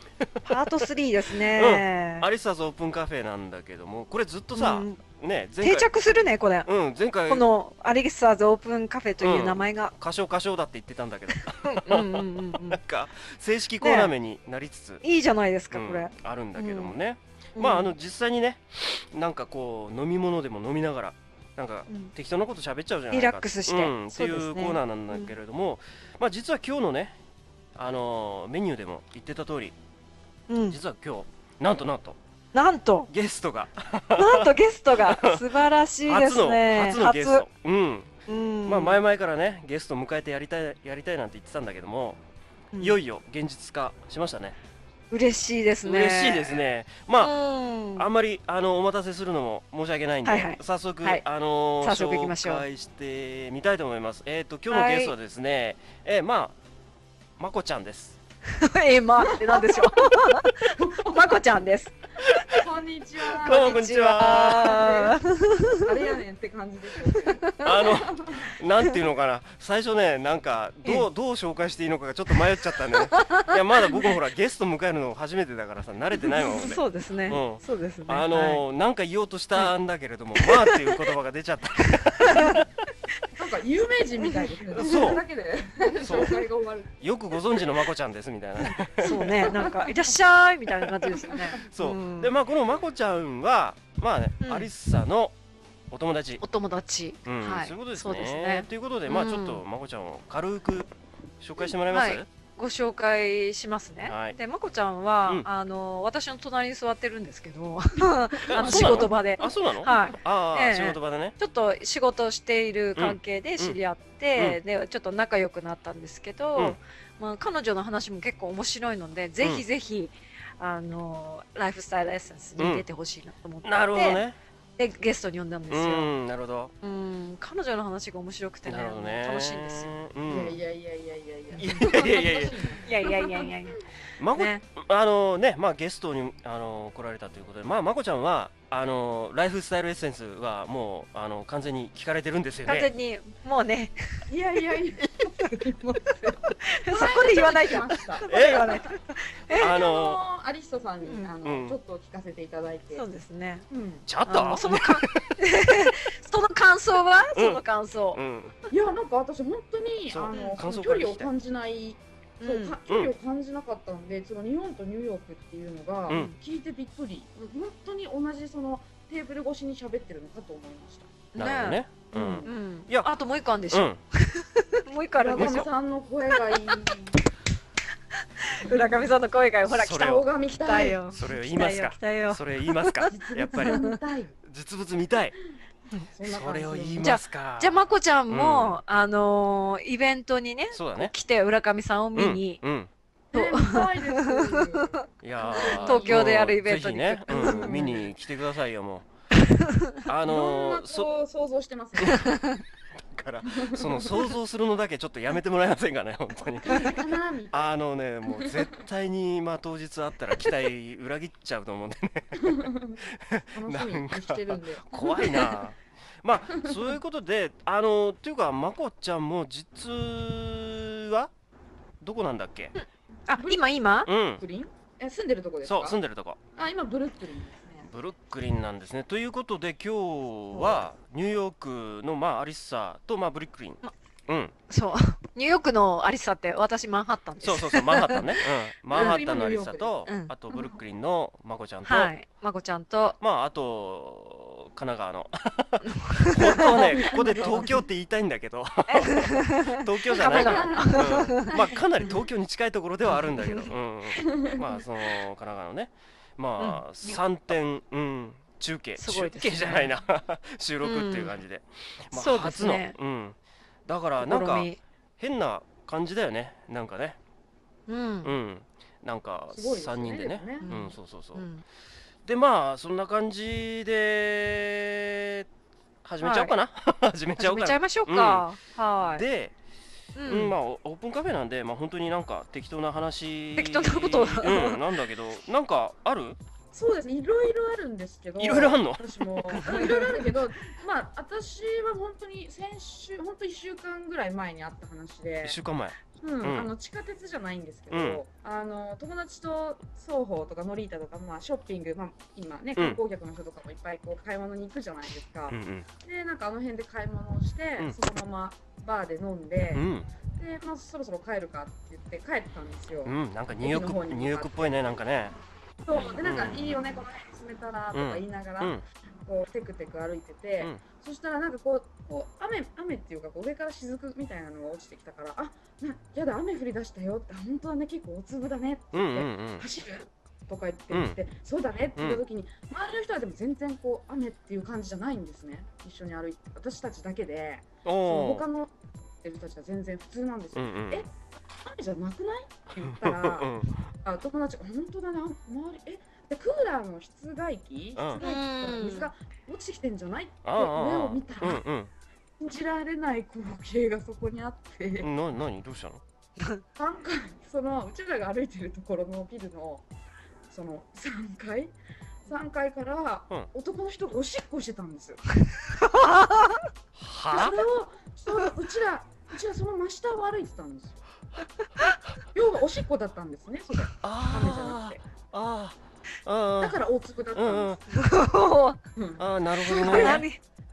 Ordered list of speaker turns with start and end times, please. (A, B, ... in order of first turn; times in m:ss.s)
0:00.2-0:05.9 A
0:00.4-0:02.3 B
0:04.5-0:05.0 B
0:05.6-0:06.7 B
0:06.7-0:07.4 A
0:07.3-0:09.9 B
0:09.2-0:15.0 A
0:11.5-0:12.8 B
0:13.8-0:14.1 B
0:15.0-0:17.0 B
0:15.7-0:27.2 A
0:17.6-0:17.9 B
0:23.1-0:25.3 B
0:27.7-0:29.8 A
0:30.5-0:30.8 B
0:30.7-0:32.2 A
0:32.5-0:33.1 B
0:33.1-0:35.4 A
0:34.1-0:37.4 B
0:36.0-0:42.2 A
0:38.3-0:39.0 B
0:42.8-0:44.6 A
0:45.1-0:46.6 B
0:45.8-0:47.4 A
0:47.2-0:48.1 B
0:48.0-0:56.6 A
0:50.2-0:51.2 B
0:51.8-0:52.6 B
0:54.7-0:55.1 B
0:57.4-0:58.2 A
0:58.5-1:02.0 B
0:59.2-1:00.0 C
1:00.7-1:01.4 C
1:02.2-1:02.6 A
1:02.4-1:05.2 C
1:03.3-1:04.9 A
1:03.5-1:06.1 B
1:05.7-1:08.6 C
1:07.3-1:07.6 B
1:07.6-1:22.7 A
1:12.9-1:14.1 B
1:16.2-1:18.6 B
1:20.4-1:21.0 B
1:22.0-1:22.6 B
1:23.4-1:27.8 C
1:24.4-1:25.2 B
1:24.8-1:25.2 A
1:26.0-1:26.4 A
1:27.0-1:29.7 A
1:29.0-1:32.3 B
1:29.0-1:30.0 C
1:31.1-1:31.6 C
1:31.6-1:35.3 A
1:34.4-1:34.7 B
1:35.9-1:36.4 A
1:36.4-1:39.6 B
1:37.2-1:42.3 A
1:41.9-2:04.2 B
1:44.0-1:44.4 A
1:48.4-1:51.4 A
1:48.5-1:49.1 C
1:53.0-1:53.8 A
2:02.6-2:02.8 A
2:03.6-2:04.4 A
2:04.8-2:06.1 B
2:05.7-2:06.7 A
2:06.8-2:10.0 B
2:08.7-2:10.6 A
2:10.3-2:13.5 C
2:11.6-2:12.7 A
2:11.6-2:12.0 B
2:12.8-2:14.6 B
2:14.2-2:22.9 A
2:22.7-2:24.3 B
2:24.3-2:28.8 C
2:26.6-2:29.7 B
2:28.3-2:28.9 A
2:29.5-2:33.0 C
2:29.5-2:30.2 A
2:31.0-2:31.3 B
2:31.4-2:31.8 A
2:33.0-2:33.6 B
2:33.7-2:34.0 C
2:34.0-2:35.4 A
2:34.3-2:38.2 B
2:37.3-2:37.6 A
2:38.1-2:38.6 A
2:38.7-2:51.2 C
2:40.1-2:41.3 A
2:40.3-2:40.6 B
2:42.4-2:42.8 B
2:51.3-2:51.8 B
2:51.4-2:53.1 A
2:52.1-2:52.5 C
2:52.4-2:55.7 B
2:53.7-2:54.0 A
2:55.2-2:57.1 C
2:55.4-2:55.7 A
2:56.3-2:57.0 B
2:58.4-3:04.0 B
2:58.6-2:59.1 C
2:59.7-3:00.3 A
2:59.9-3:01.1 C
3:01.1-3:03.9 A
3:03.1-3:04.4 C
3:04.4-3:05.3 A
3:06.1-3:07.1 C
3:06.2-3:08.8 A
3:07.0-3:12.6 B
3:10.7-3:11.1 A
3:12.1-3:12.9 A
3:13.3-3:16.4 C
3:13.3-3:17.9 B
3:15.2-3:19.1 A
3:17.3-3:18.1 C
3:19.6-3:20.0 B
3:20.0-3:21.1 A
3:20.3-3:22.3 C
3:22.0-3:22.3 A
3:22.1-3:22.6 B
3:23.0-3:41.3 A
3:23.4-3:24.3 C
3:26.6-3:27.7 C
3:28.4-3:28.7 C
3:32.4-3:35.5 C
3:42.0-3:42.7 A
3:42.8-3:44.1 B
3:43.3-3:43.6 C
3:44.0-3:44.4 A
3:44.4-3:46.0 C
3:45.6-3:46.4 A
3:46.6-3:47.9 C
3:47.8-3:54.6 A
3:50.5-3:50.8 C
3:54.7-3:58.4 B
3:57.4-4:02.1 A
3:58.9-4:00.0 C
3:59.0-3:59.2 B
4:00.1-4:00.3 B
4:01.8-4:03.2 B
4:03.2-4:27.2 A
4:05.8-4:07.8 B
4:07.0-4:07.7 C
4:08.9-4:11.6 B
4:10.2-4:11.6 C
4:13.1-4:13.7 B
4:14.2-4:14.6 C
4:16.6-4:17.2 B
4:19.0-4:19.9 B
4:20.8-4:21.3 B
4:22.1-4:23.0 B
4:24.2-4:24.8 B
4:27.9-4:28.3 B
4:28.2-4:31.4 A
4:29.5-4:30.7 C
4:30.6-4:31.6 B
4:32.2-4:35.4 A
4:36.0-4:38.5 A
4:36.2-4:36.5 B
4:37.4-4:39.2 B
4:39.0-4:39.6 A
4:40.1-4:40.6 B
4:40.3-4:46.4 A
4:43.6-4:44.8 B
4:46.7-4:55.6 C
4:48.4-4:49.8 A
4:49.6-4:50.1 B
4:55.4-4:56.7 A
4:56.2-5:15.0 C
4:57.9-4:58.2 A
5:05.5-5:05.9 A
5:09.7-5:10.1 A
5:13.0-5:15.4 A
5:15.8-5:41.1 C
5:16.0-5:16.7 A
5:17.9-5:18.8 A
5:28.9-5:29.7 A
5:30.9-5:31.2 A
5:32.0-5:32.2 A
5:37.8-5:38.4 A
5:40.5-5:41.1 A
5:41.6-5:43.5 C
5:42.8-5:43.7 A
5:44.0-5:51.6 C
5:48.0-5:48.2 A
5:48.2-5:49.1 B
5:50.4-5:51.9 A
5:52.4-5:55.1 C
5:55.0-5:56.0 A
5:56.8-5:59.9 C
6:00.5-6:01.7 C
6:02.3-6:05.2 C
6:05.8-6:06.7 B
6:07.0-6:07.6 A
6:07.3-6:11.0 C
6:12.3-6:15.0 C
6:14.0-6:16.8 A
6:16.6-6:17.8 C
6:17.3-6:17.8 A
6:17.9-6:18.8 B
6:19.0-6:20.3 C
6:19.2-6:20.3 A
6:19.6-6:20.4 B